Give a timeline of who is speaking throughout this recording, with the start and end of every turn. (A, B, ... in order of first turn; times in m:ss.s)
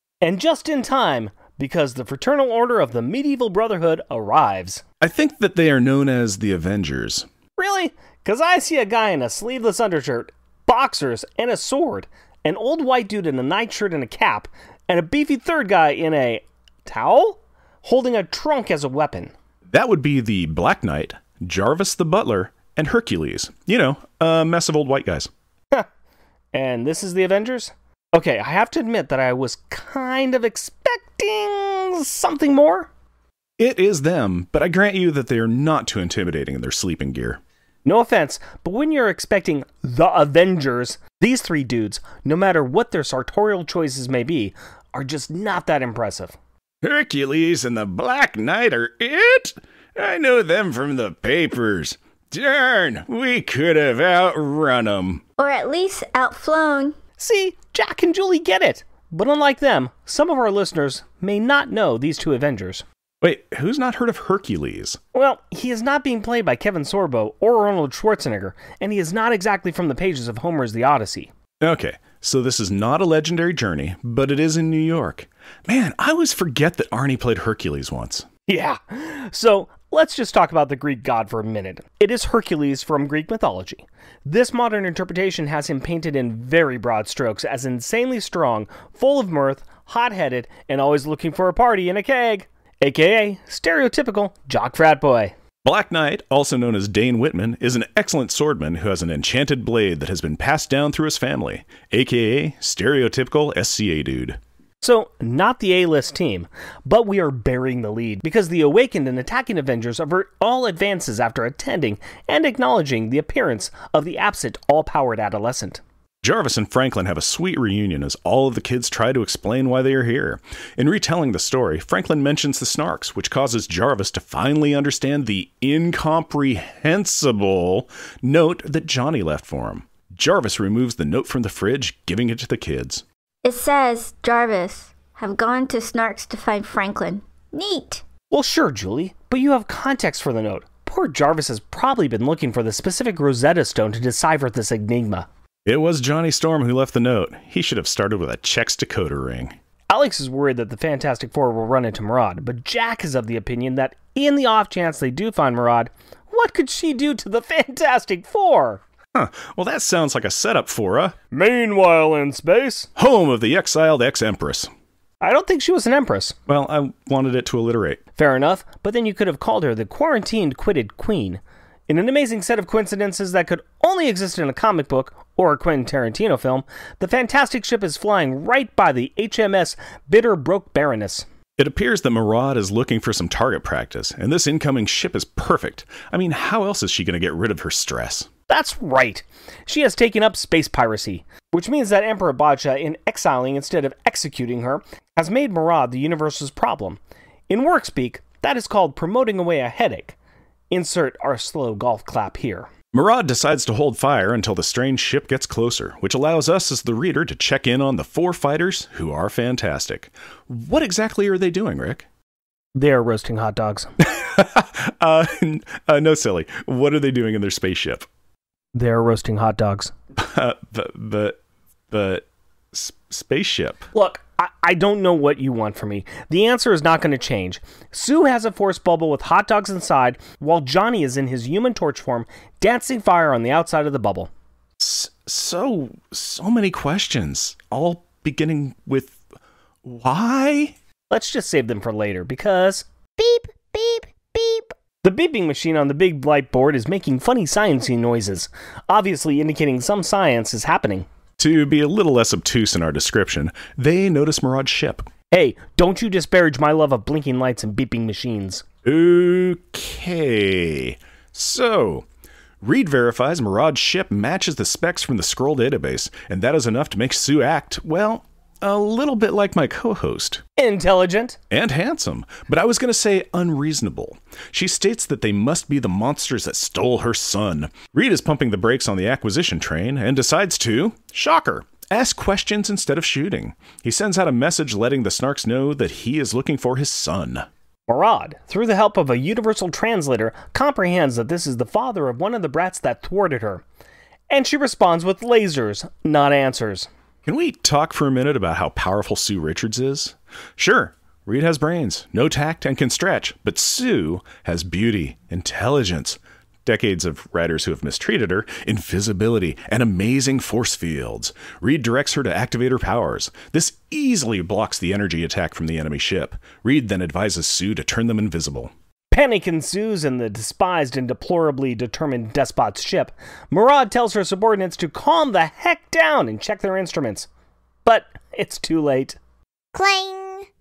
0:00.2-0:04.8 A
0:05.0-0:07.3 B
0:07.6-0:19.3 A
0:19.7-0:25.3 B
0:26.5-0:32.9 A
0:33.6-0:37.4 B
0:37.8-0:46.4 A
0:46.8-0:55.2 B
0:55.4-0:57.0 C
0:57.2-1:02.8 A
1:03.2-1:05.0 B
1:05.1-1:11.3 A
1:11.6-1:18.3 B
1:18.5-1:35.4 A
1:35.6-1:44.4 B
1:44.8-1:55.8 A
1:56.2-2:13.0 B
2:13.4-2:18.0 C
2:18.3-2:25.3 A
2:25.7-2:29.6 B
2:29.9-2:38.8 A
2:39.1-2:41.2 B
2:41.3-2:42.9 A
2:43.0-2:44.7 B
2:45.2-2:46.4 A
2:46.5-2:48.0 B
2:48.2-3:01.3 A
3:01.6-3:08.3 B
3:08.5-3:20.2 A
3:20.7-3:22.7 A
3:22.9-3:32.1 B
3:32.8-3:33.9 A
3:34.0-3:38.1 B
3:38.8-3:39.9 A
3:40.2-3:41.4 B
3:41.9-3:43.9 B
3:43.9-3:54.3 A
3:54.8-3:59.2 B
3:59.8-4:00.8 B
4:01.1-4:02.8 A
4:03.2-4:04.7 D
4:05.0-4:11.1 A
4:11.4-4:15.1 B
4:15.3-4:18.6 A
4:18.8-4:22.1 B
4:22.6-4:30.4 B
4:30.6-4:31.4 A
4:31.5-4:47.5 B
4:47.9-4:53.6 A
4:54.3-4:56.9 A
4:57.3-5:18.7 B
5:19.1-5:27.3 A
5:27.8-5:29.2 A
5:29.7-5:30.5 D